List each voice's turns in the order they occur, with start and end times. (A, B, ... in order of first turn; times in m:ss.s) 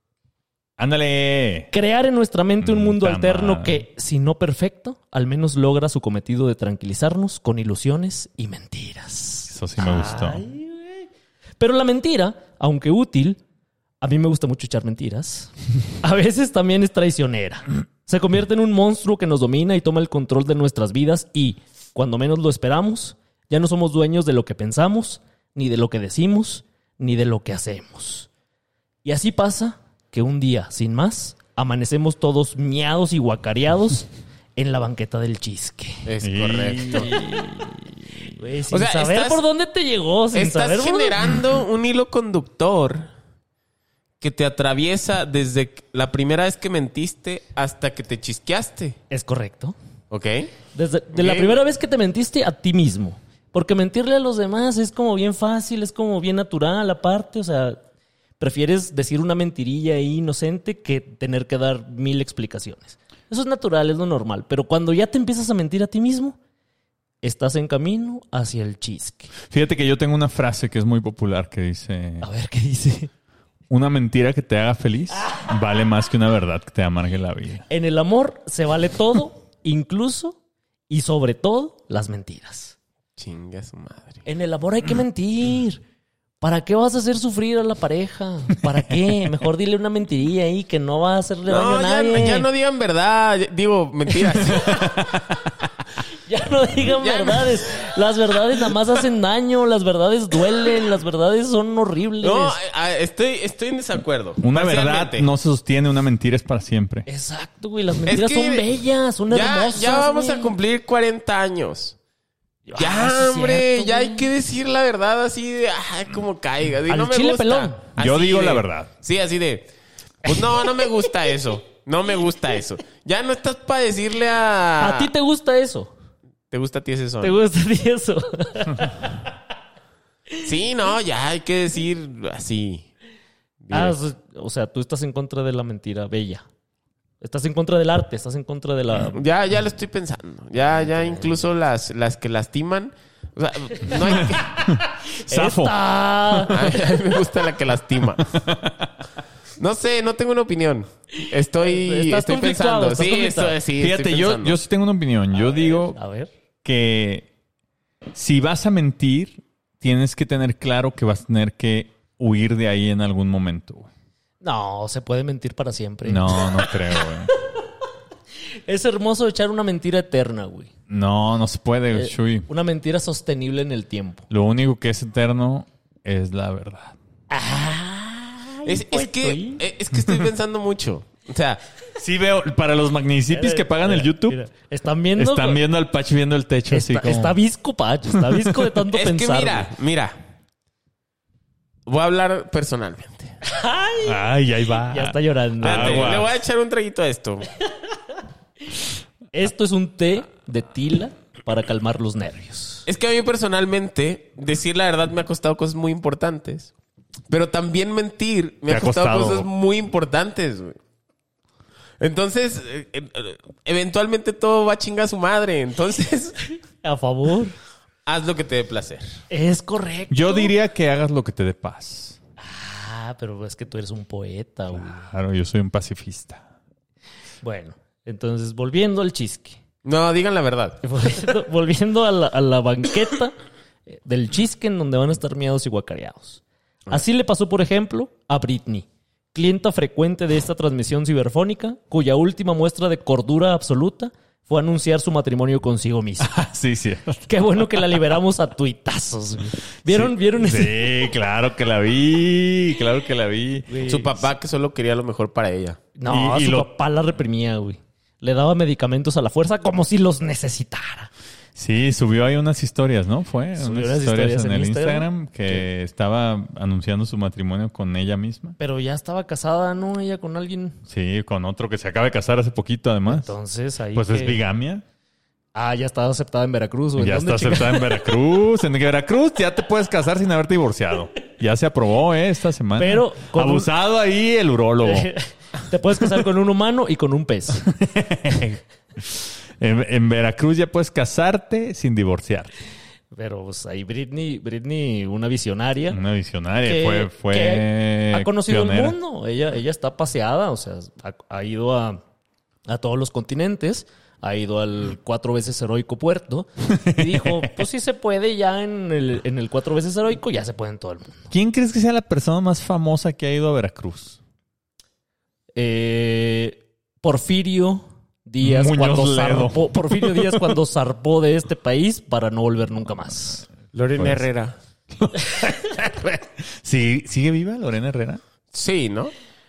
0:00.8-0:01.7 A
0:01.7-0:11.1 B
0:02.6-0:03.8 A
0:09.5-0:10.4 A
0:11.6-0:13.4 B
0:14.0-0:28.3 B
0:29.0-0:36.1 B
0:36.1-0:37.2 C
0:36.2-0:37.7 A
0:38.4-0:41.2 B
0:38.7-0:39.4 C
0:40.3-0:43.1 C
0:44.2-0:49.0 C
0:49.1-0:49.8 B
0:50.1-0:50.6 C
0:50.7-0:57.8 B
0:51.1-0:51.6 C
0:58.4-1:06.4 B
1:07.2-1:09.3 B
1:09.5-1:12.3 A
1:12.2-1:13.1 B
1:13.7-1:17.7 A
1:17.7-1:20.4 B
1:20.9-1:22.8 B
1:23.2-1:24.2 C
1:24.2-1:25.8 B
1:26.4-1:32.5 B
1:31.5-1:34.8 C
1:34.6-1:35.5 A
1:36.3-1:42.6 B
1:36.8-1:37.8 C
1:42.2-1:45.3 C
1:44.4-1:47.1 A
1:47.1-1:50.6 B
1:48.1-1:48.7 C
1:49.3-1:52.0 C
1:52.7-1:54.3 B
1:52.8-1:59.7 C
1:56.9-1:57.8 B
1:58.0-1:58.9 A
2:00.2-2:05.1 C
2:04.8-2:05.9 B
2:06.5-2:07.4 C
2:07.2-2:09.2 B
2:10.4-2:12.9 C
2:13.6-2:14.0 C
2:13.7-2:16.4 B
2:17.2-2:19.2 B
2:19.1-2:24.5 C
2:20.7-2:21.4 B
2:24.2-2:25.8 A
2:24.3-2:26.7 B
2:26.5-2:28.3 C
2:28.3-2:28.9 A
2:29.6-2:34.6 C
2:31.6-2:33.6 B
2:33.8-2:36.0 A
2:35.3-2:36.3 B
2:36.6-2:37.3 A
2:38.2-2:43.9 A
2:44.4-2:47.0 B
2:46.1-2:47.3 A
2:48.7-2:50.7 B
2:50.9-2:52.5 A
2:51.9-2:54.3 B
2:54.3-2:57.0 A
2:57.3-2:59.6 B
2:58.6-3:01.6 C
3:02.0-3:04.4 A
3:03.3-3:05.6 B
3:05.2-3:07.4 A
3:06.7-3:09.7 B
3:08.9-3:10.2 C
3:11.9-3:13.4 C
3:13.5-3:14.1 B
3:14.0-3:16.3 A
3:14.9-3:16.2 B
3:15.6-3:17.5 C
3:19.3-3:22.9 B
3:22.9-3:26.7 C
3:27.3-3:30.8 C
3:28.7-3:29.5 A
3:32.0-3:36.4 C
3:36.8-3:37.6 B
3:38.1-3:39.2 C
3:39.3-3:40.5 B
3:40.1-3:42.2 A
3:42.4-3:45.0 B
3:44.7-3:46.4 A
3:47.4-3:49.6 B
3:49.8-3:50.8 C
3:50.8-3:53.3 B
3:53.9-4:06.3 B
4:06.2-4:08.0 A
4:07.3-4:11.0 B
4:09.9-4:13.7 A
4:13.7-4:14.1 B
4:13.8-4:15.8 C
4:16.0-4:21.1 B
4:16.1-4:16.7 A
4:21.6-4:28.6 A
4:23.6-4:25.6 B
4:28.6-4:30.8 B
4:30.9-4:33.3 A
4:33.1-4:34.4 B
4:33.9-4:34.8 A
4:35.6-4:38.2 B
4:37.0-4:45.1 A
4:42.8-4:43.7 B
4:44.8-4:47.7 B
4:47.7-4:52.5 A
4:53.1-4:56.0 B
4:55.9-4:59.0 A
4:56.6-5:02.0 B
5:02.7-5:11.3 B
5:06.7-5:07.5 A
5:11.3-5:14.2 A
5:15.6-5:23.4 B
5:18.4-5:20.5 A
5:23.7-5:24.6 C
5:24.0-5:24.2 A
5:25.0-5:25.3 A
5:26.6-5:28.2 A
5:28.5-5:29.1 C